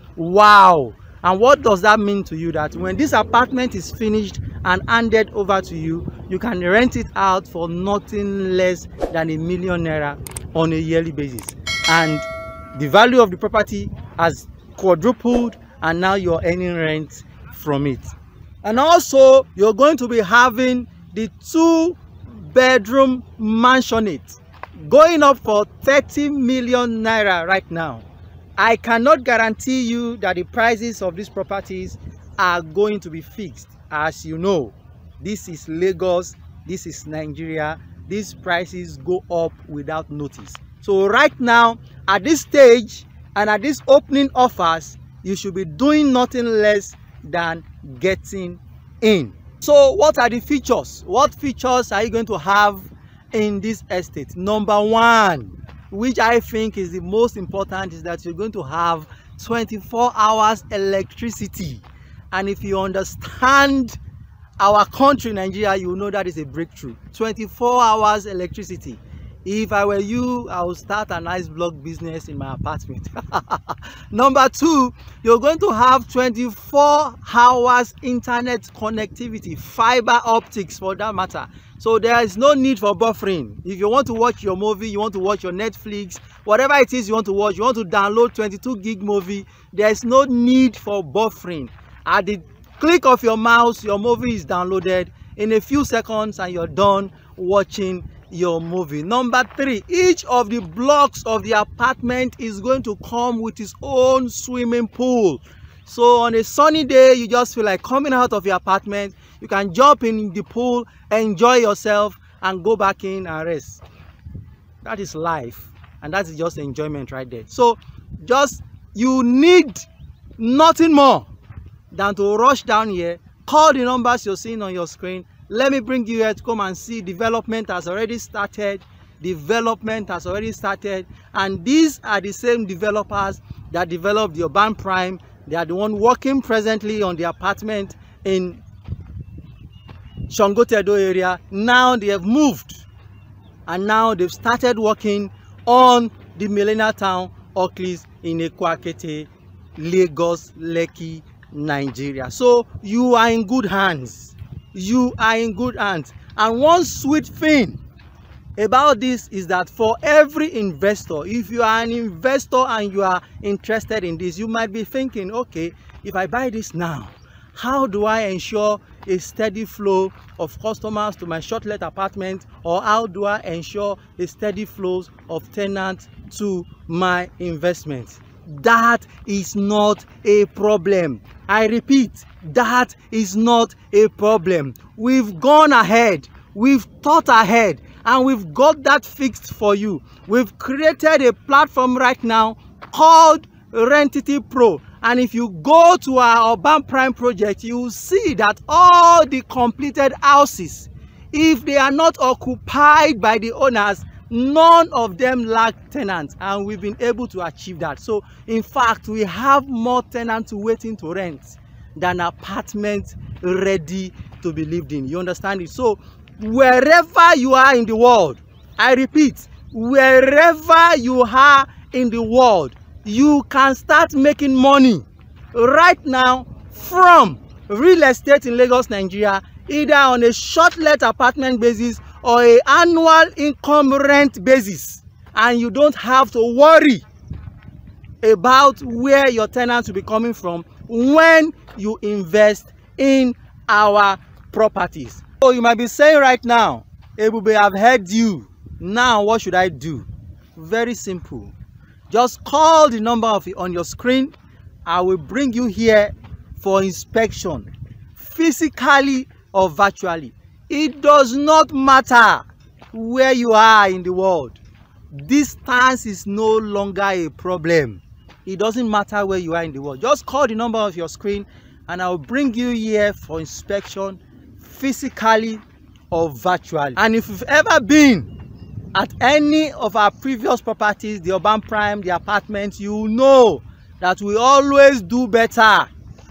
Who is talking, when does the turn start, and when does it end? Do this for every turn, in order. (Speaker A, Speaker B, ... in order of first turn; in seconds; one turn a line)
Speaker A: 0.1-18.1
Speaker A: 18.6-28.0
Speaker A: 28.6-64.0
Speaker A: 64.6-113.8
Speaker A: 114.8-119.8
Speaker A: 120.4-121.3
Speaker A: 121.9-138.6
Speaker A: 140.3-142.8
Speaker A: 143.7-157.8
Speaker A: 158.6-237.0
Speaker A: 238.2-251.5
Speaker A: 252.1-254.3
Speaker A: 254.8-264.6
Speaker A: 265.1-278.3
Speaker A: 278.9-285.9